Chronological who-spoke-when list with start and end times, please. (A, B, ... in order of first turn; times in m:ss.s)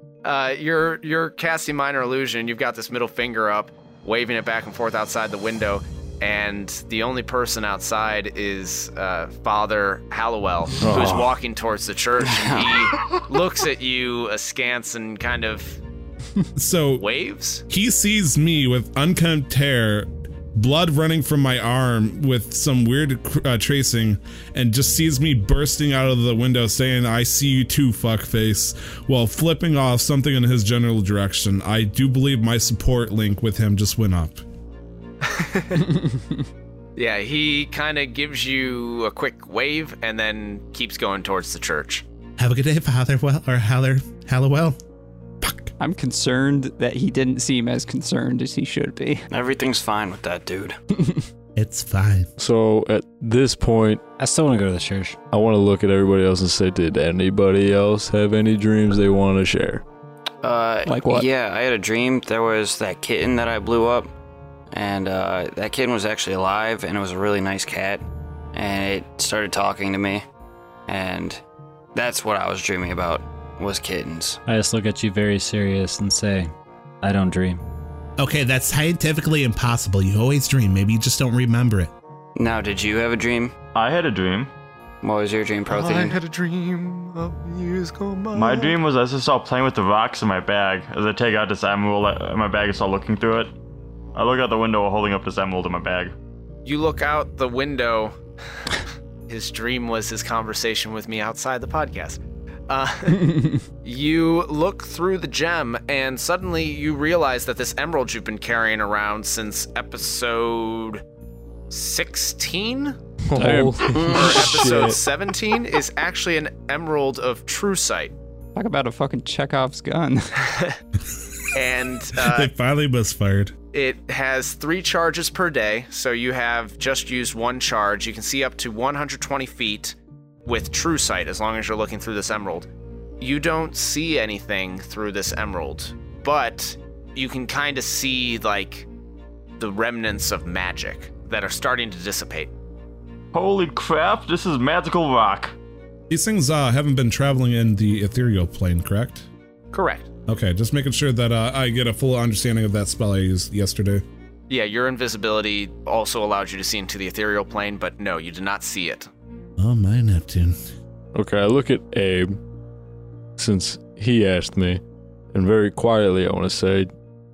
0:00.2-0:15.8 A
0:10.8-0:11.3 B
0:12.3-0:12.9 C
0:16.6-0:17.0 D
0:17.0-0:17.6 A
0:17.7-0:34.4 D
0:35.2-0:35.9 A
0:37.0-0:42.0 A
0:42.4-0:44.8 D
0:45.4-0:45.7 D
0:45.8-0:49.3 E
0:49.3-0:50.8 C
0:51.6-0:52.3 D
0:52.4-0:54.0 B
0:54.2-0:55.2 F
0:55.3-0:59.8 B
1:00.4-1:04.1 C
1:00.9-1:01.3 E
1:04.7-1:08.0 C
1:08.6-1:10.2 C
1:10.9-1:11.4 C
1:12.0-1:14.4 C
1:14.5-1:16.5 F
1:17.0-1:17.6 F
1:18.2-1:21.9 D
1:22.4-1:23.5 C
1:23.8-1:24.5 G
1:25.0-1:26.2 C
1:25.7-1:28.7 A
1:28.3-1:33.5 G
1:34.1-1:36.1 G
1:36.6-1:38.2 A
1:39.3-1:51.0 A
1:51.7-1:53.0 A
1:53.3-1:55.0 B
1:53.4-1:53.9 E
1:53.9-1:54.6 C
1:54.0-1:58.1 A
1:58.6-2:00.3 E
2:00.4-2:00.8 A
2:01.5-2:02.5 A
2:02.2-2:03.6 D
2:03.7-2:12.7 A
2:13.2-2:18.9 A
2:19.6-2:22.5 A
2:23.3-2:25.6 G
2:26.1-2:29.3 D
2:29.7-2:30.1 A
2:30.3-2:34.0 D
2:34.5-2:39.1 A
2:39.6-2:40.6 D
2:41.1-2:42.4 B
2:43.4-2:44.8 B
2:45.3-2:46.9 B